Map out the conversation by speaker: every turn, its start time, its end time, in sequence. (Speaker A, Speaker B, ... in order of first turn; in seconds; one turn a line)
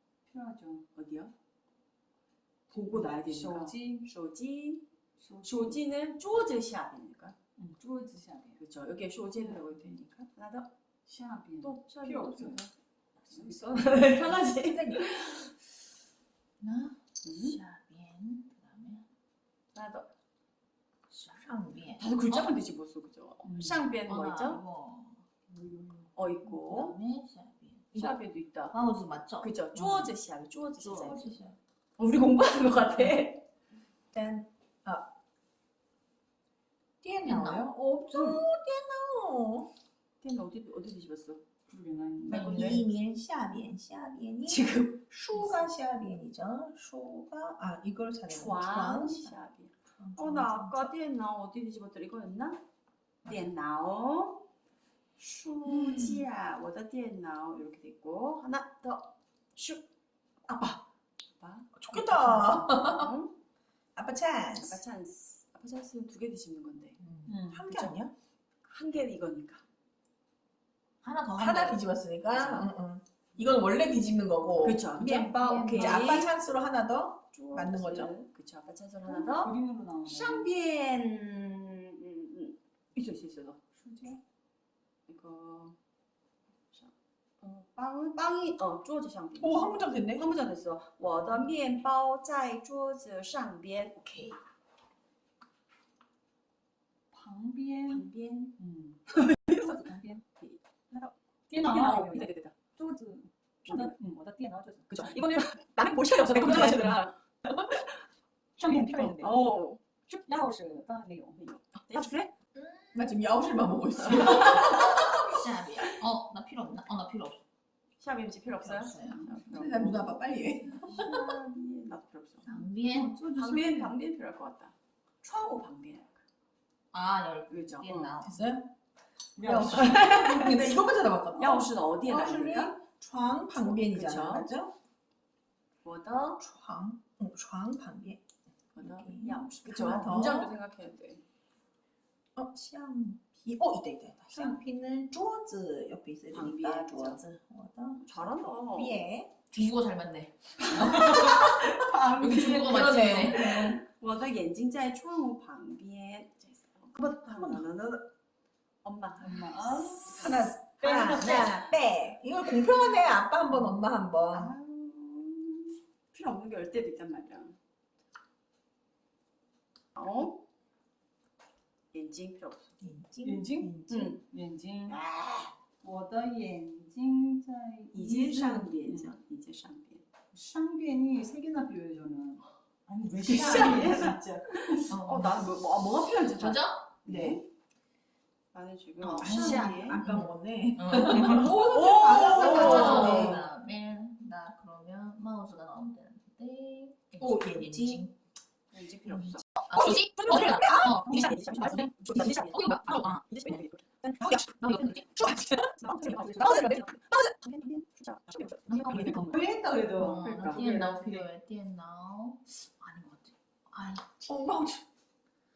Speaker A: 0.3-0.8
Speaker B: 0.9-1.3
Speaker B: 2.7-4.8
Speaker A: 3.0-4.1
Speaker A: 5.2-5.8
Speaker B: 5.4-7.3
Speaker A: 7.6-8.6
Speaker B: 8.6-10.7
Speaker A: 9.4-10.0
Speaker A: 11.1-12.7
Speaker B: 11.6-12.7
Speaker A: 13.2-14.3
Speaker B: 13.3-15.5
Speaker C: 14.6-15.0
Speaker D: 16.6-19.0
Speaker B: 17.2-17.6
Speaker B: 19.7-20.1
Speaker D: 21.1-22.5
Speaker B: 22.0-24.6
Speaker A: 23.4-23.9
Speaker D: 23.9-25.2
Speaker A: 25.5-25.9
Speaker B: 26.1-27.0
Speaker D: 26.4-28.2
Speaker B: 27.9-28.8
Speaker D: 28.7-30.1
Speaker B: 29.4-31.5
Speaker D: 30.8-31.5
Speaker B: 32.0-33.4
Speaker C: 34.1-35.0
Speaker C: 37.0-39.7
Speaker D: 37.2-37.7
Speaker B: 38.1-38.4
Speaker B: 40.2-41.4
Speaker A: 41.7-42.8
Speaker B: 42.3-42.8
Speaker C: 42.3-49.4
Speaker D: 42.4-42.8
Speaker B: 44.4-45.0
Speaker B: 48.3-52.6
Speaker C: 50.0-50.9
Speaker B: 53.2-54.4
Speaker B: 55.2-59.8
Speaker C: 55.6-56.2
Speaker B: 60.5-60.8
Speaker B: 61.4-63.3
Speaker C: 61.8-63.1
Speaker C: 64.0-64.8
Speaker B: 64.6-67.0
Speaker C: 67.0-68.1
Speaker A: 67.3-67.7
Speaker B: 67.7-68.0
Speaker B: 68.6-69.6
Speaker D: 71.0-71.8
Speaker C: 71.4-78.2
Speaker B: 72.3-72.7
Speaker B: 74.6-76.3
Speaker D: 75.3-76.0
Speaker B: 77.3-79.5
Speaker A: 79.1-80.5
Speaker B: 80.0-83.6
Speaker A: 83.7-84.2
Speaker B: 85.1-85.8
Speaker B: 86.7-94.4
Speaker C: 89.4-90.2
Speaker A: 97.1-98.0
Speaker B: 97.9-98.6
Speaker A: 98.6-100.2
Speaker B: 99.1-99.6
Speaker B: 100.4-102.6
Speaker A: 101.5-105.2
Speaker B: 103.7-103.9
Speaker B: 104.9-107.9
Speaker C: 106.3-107.0
Speaker A: 108.6-109.4
Speaker B: 108.9-110.2
Speaker A: 110.2-111.5
Speaker B: 111.4-112.3
Speaker D: 112.5-113.1
Speaker C: 112.9-115.2
Speaker D: 114.1-117.4
Speaker B: 114.3-114.7
Speaker B: 118.0-120.2
Speaker D: 118.5-119.3
Speaker C: 119.5-121.2
Speaker B: 120.8-122.6
Speaker D: 122.4-123.2
Speaker A: 122.8-123.9
Speaker B: 123.3-126.2
Speaker D: 126.9-128.5
Speaker B: 127.5-128.2
Speaker C: 128.2-128.7
Speaker A: 129.3-130.0
Speaker C: 129.4-134.7
Speaker B: 129.5-130.6
Speaker B: 131.4-132.8
Speaker B: 133.6-134.5
Speaker B: 135.8-136.4
Speaker C: 136.4-138.2
Speaker B: 138.7-141.2
Speaker C: 138.8-140.5
Speaker C: 142.3-149.5
Speaker B: 146.3-147.2
Speaker B: 148.0-149.0
Speaker D: 149.5-151.2
Speaker C: 150.8-151.7
Speaker A: 151.2-153.2
Speaker D: 152.2-153.7
Speaker C: 152.6-153.8
Speaker B: 152.7-158.1
Speaker B: 158.8-160.6
Speaker A: 159.2-161.6
Speaker C: 160.1-164.5
Speaker B: 164.3-167.6
Speaker B: 169.9-170.4
Speaker B: 171.9-172.7
Speaker C: 172.8-174.1
Speaker A: 173.2-175.0
Speaker B: 173.9-174.2
Speaker B: 174.9-175.5
Speaker A: 175.8-179.1
Speaker B: 177.9-180.0
Speaker A: 180.3-184.9
Speaker B: 183.1-187.4
Speaker D: 184.9-185.5
Speaker D: 186.1-186.9
Speaker C: 187.1-187.4
Speaker B: 188.5-190.1
Speaker D: 189.0-198.1
Speaker C: 189.2-193.4
Speaker B: 191.1-193.4
Speaker C: 197.2-198.0
Speaker B: 198.7-204.2
Speaker D: 199.1-203.6
Speaker C: 199.7-201.0
Speaker A: 201.0-202.3
Speaker C: 202.1-202.4
Speaker C: 204.2-204.6
Speaker D: 204.5-205.2
Speaker C: 205.2-205.6
Speaker B: 205.6-209.2
Speaker A: 205.9-206.8
Speaker D: 208.7-209.4
Speaker A: 208.8-211.3
Speaker D: 209.9-214.2
Speaker B: 210.1-210.6
Speaker C: 214.2-214.8